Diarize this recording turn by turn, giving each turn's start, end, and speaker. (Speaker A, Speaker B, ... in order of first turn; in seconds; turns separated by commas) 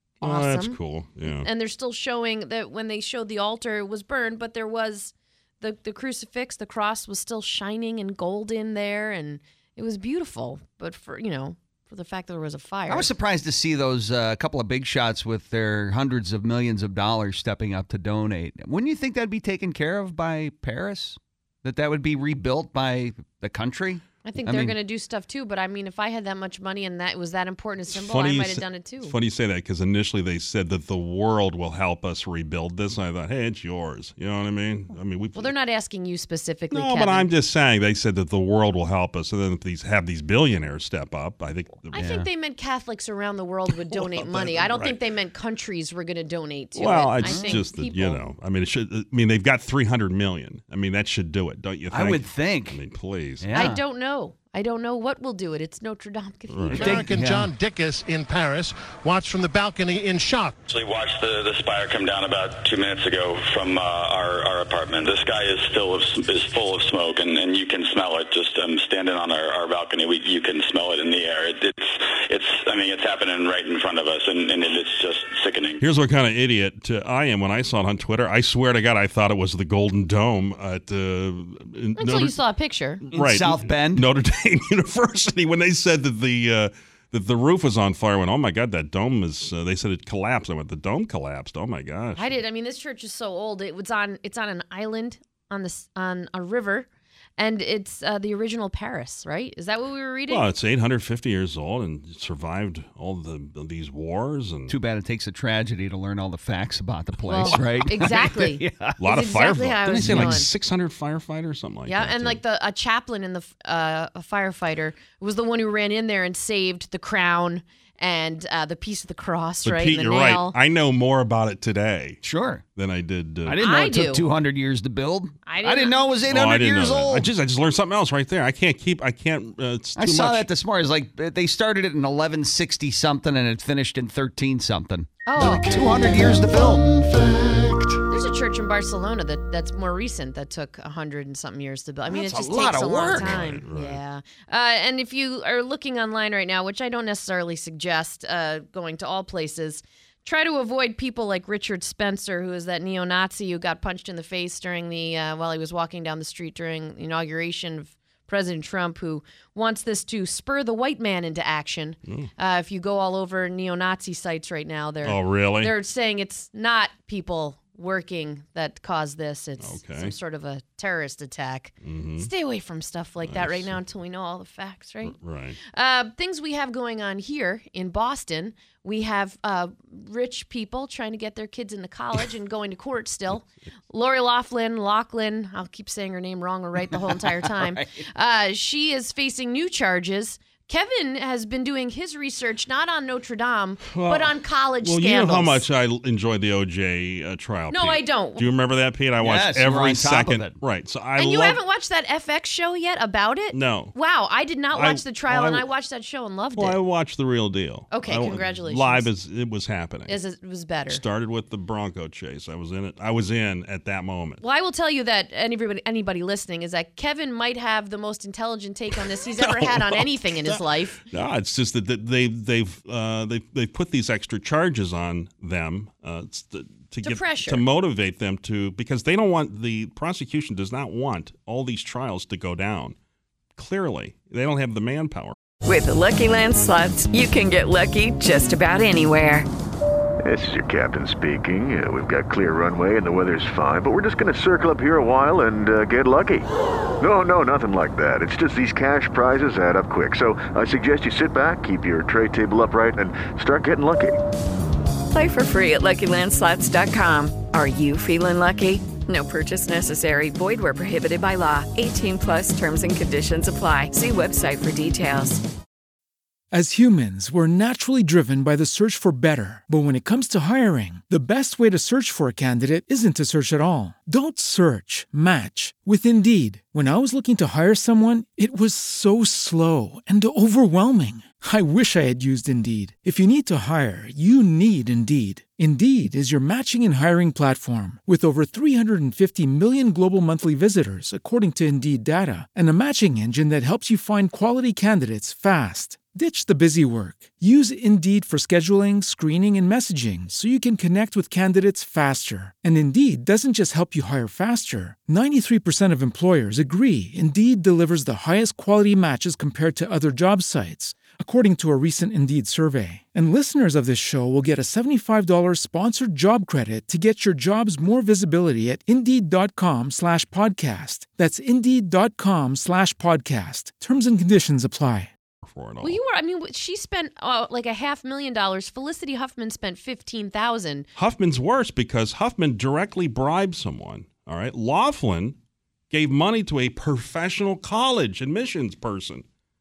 Speaker A: 0.2-13.1, Speaker B: 0.2-1.5, Speaker C: 12.9-24.8, Speaker A: 24.2-29.1, Speaker B: 27.9-35.5, Speaker A: 35.4-37.3, Speaker B: 36.7-42.1, Speaker A: 41.9-48.2, Speaker C: 42.0-42.2, Speaker B: 43.9-45.0, Speaker B: 46.8-53.5, Speaker C: 47.2-47.6, Speaker C: 51.9-52.8, Speaker C: 53.4-53.8, Speaker A: 53.5-56.9, Speaker B: 56.5-57.0, Speaker C: 56.7-57.5, Speaker D: 56.9-60.5, Speaker E: 60.7-75.8, Speaker B: 75.8-82.4, Speaker A: 82.0-83.0, Speaker B: 83.1-92.3, Speaker C: 83.1-84.1, Speaker A: 92.2-100.5, Speaker B: 100.3-104.7, Speaker C: 104.7-109.0, Speaker A: 107.3-110.5, Speaker B: 109.0-112.4, Speaker C: 109.9-110.5, Speaker A: 111.9-120.5, Speaker B: 119.6-122.2, Speaker C: 122.2-122.6, Speaker B: 122.8-123.6, Speaker C: 123.5-127.3, Speaker A: 123.6-124.3, Speaker A: 125.5-126.0, Speaker B: 126.3-130.5, Speaker C: 130.0-137.2, Speaker A: 135.3-135.8, Speaker A: 138.1-195.6, Speaker C: 142.1-143.5, Speaker B: 143.1-144.0, Speaker B: 165.0-165.7, Speaker B: 169.6-170.1, Speaker B: 171.8-172.3, Speaker B: 173.2-173.8, Speaker B: 175.0-175.6, Speaker C: 186.9-188.0, Speaker B: 193.9-201.6, Speaker A: 197.7-198.4, Speaker C: 199.2-200.6, Speaker A: 201.2-206.8, Speaker B: 203.5-203.9, Speaker B: 204.7-205.7, Speaker B: 206.6-210.2, Speaker A: 207.9-209.1, Speaker A: 210.1-211.0, Speaker B: 210.9-214.4, Speaker A: 214.4-221.0, Speaker B: 218.9-232.9, Speaker A: 227.0-227.6, Speaker B: 233.6-235.3, Speaker F: 235.6-239.5, Speaker G: 240.2-246.5, Speaker G: 247.0-254.2, Speaker F: 255.1-265.4, Speaker H: 266.5-325.1, Speaker B: 325.4-326.0, Speaker A: 325.8-330.9, Speaker B: 331.0-335.4, Speaker B: 335.9-339.2